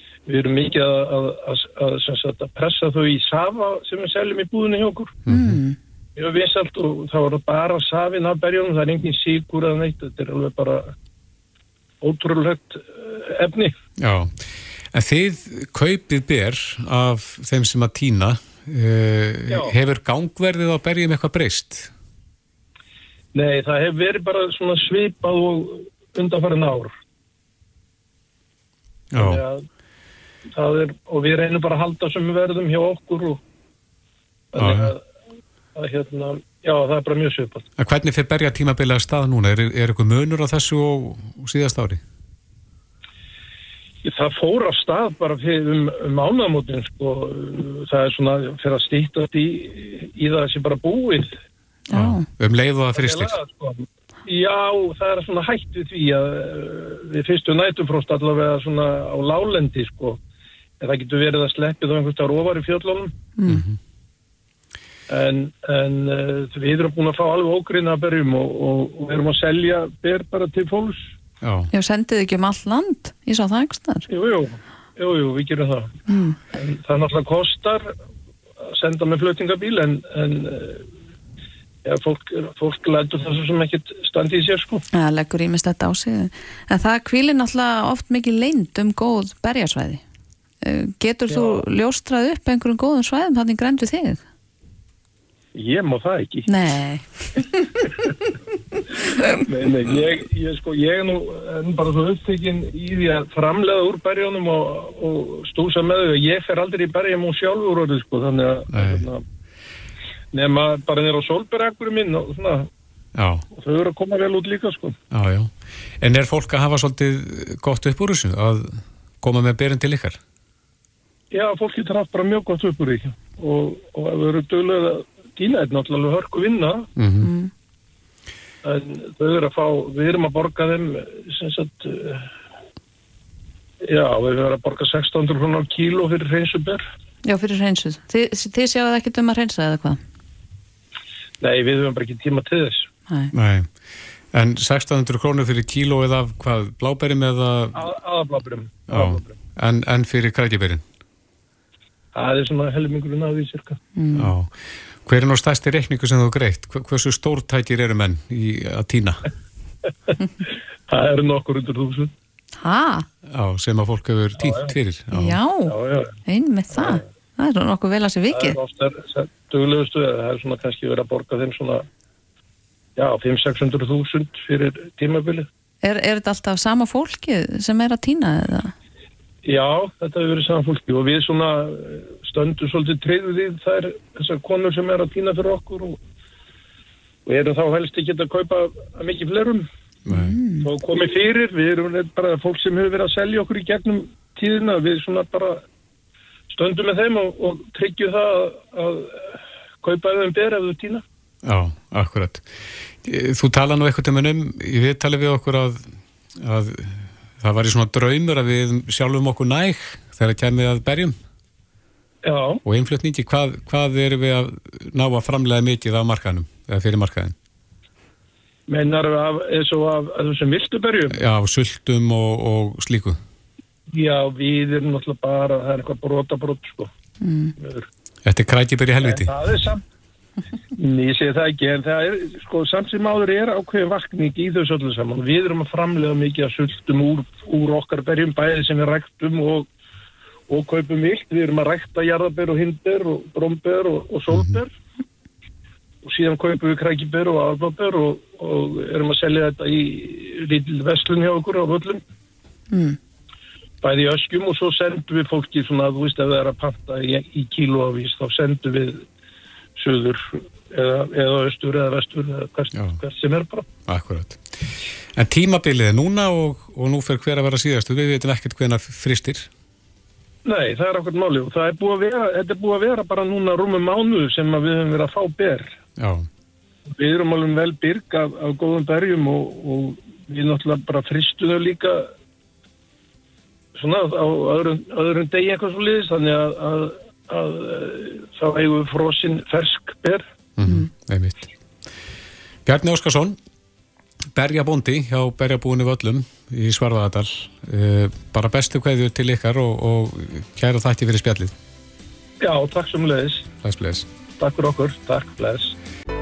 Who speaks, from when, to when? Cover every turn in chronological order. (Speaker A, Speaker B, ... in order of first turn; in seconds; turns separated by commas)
Speaker A: 0.3-5.2, Speaker B: 5.3-5.6, Speaker C: 5.3-5.8, Speaker A: 6.2-10.9, Speaker A: 12.0-13.7, Speaker B: 14.0-21.9, Speaker A: 19.5-19.8, Speaker A: 23.3-26.9, Speaker B: 29.1-29.4, Speaker A: 29.2-29.6, Speaker A: 30.5-33.4, Speaker A: 34.5-35.0, Speaker B: 34.6-35.0, Speaker A: 35.8-37.7, Speaker B: 37.8-42.0, Speaker A: 44.0-51.4, Speaker C: 51.9-52.3, Speaker B: 51.9-53.4, Speaker A: 53.0-60.2, Speaker A: 60.8-63.1, Speaker C: 63.4-63.6, Speaker B: 63.5-63.8, Speaker A: 65.1-71.1, Speaker B: 71.4-71.7, Speaker C: 71.7-74.1, Speaker A: 74.1-76.0, Speaker C: 76.1-76.4, Speaker A: 76.5-77.9, Speaker A: 78.7-80.9, Speaker A: 81.8-84.8, Speaker C: 84.9-90.0, Speaker C: 90.6-94.2, Speaker A: 91.3-91.6, Speaker A: 95.5-96.5, Speaker C: 96.5-97.6, Speaker A: 99.5-109.2, Speaker B: 108.7-109.0, Speaker A: 110.3-112.7, Speaker B: 113.2-113.5, Speaker A: 113.5-115.0, Speaker B: 115.1-120.2, Speaker A: 121.3-126.9, Speaker B: 127.0-127.3, Speaker C: 127.2-127.5, Speaker A: 128.6-132.3, Speaker A: 133.8-136.8, Speaker C: 137.2-140.0, Speaker A: 141.4-142.9, Speaker C: 143.1-143.3, Speaker B: 143.3-143.7, Speaker B: 144.3-147.8, Speaker A: 147.8-149.4, Speaker B: 148.9-150.8, Speaker A: 152.2-153.8, Speaker C: 154.0-154.3, Speaker B: 154.1-159.2, Speaker A: 160.9-162.1, Speaker C: 162.6-163.1, Speaker B: 163.3-165.4, Speaker A: 164.4-164.8, Speaker C: 165.1-168.6, Speaker A: 165.7-166.2, Speaker A: 166.7-167.0, Speaker A: 168.3-171.9, Speaker A: 173.0-175.5, Speaker C: 175.8-178.7, Speaker A: 179.4-186.0, Speaker A: 187.3-189.7, Speaker B: 190.1-190.4, Speaker C: 190.1-190.7, Speaker A: 190.6-195.6, Speaker A: 196.5-201.0, Speaker B: 201.4-211.2, Speaker A: 212.2-212.6, Speaker B: 212.6-217.3, Speaker A: 218.7-221.2, Speaker B: 221.1-223.2, Speaker A: 223.9-226.9, Speaker C: 227.2-227.5, Speaker A: 227.6-227.9, Speaker B: 228.2-229.3, Speaker A: 229.0-229.8, Speaker A: 230.8-239.7, Speaker A: 240.5-244.7, Speaker B: 244.3-244.6, Speaker A: 246.0-252.0, Speaker C: 252.7-253.0, Speaker A: 253.8-259.1, Speaker A: 259.8-263.7, Speaker B: 262.7-263.0, Speaker B: 263.9-269.5, Speaker A: 270.4-275.8, Speaker B: 276.0-276.3, Speaker A: 276.9-282.1, Speaker A: 283.8-290.3, Speaker B: 290.6-291.4, Speaker B: 292.6-293.4, Speaker B: 294.3-301.6, Speaker A: 302.4-303.5, Speaker B: 303.6-304.1, Speaker A: 304.4-305.8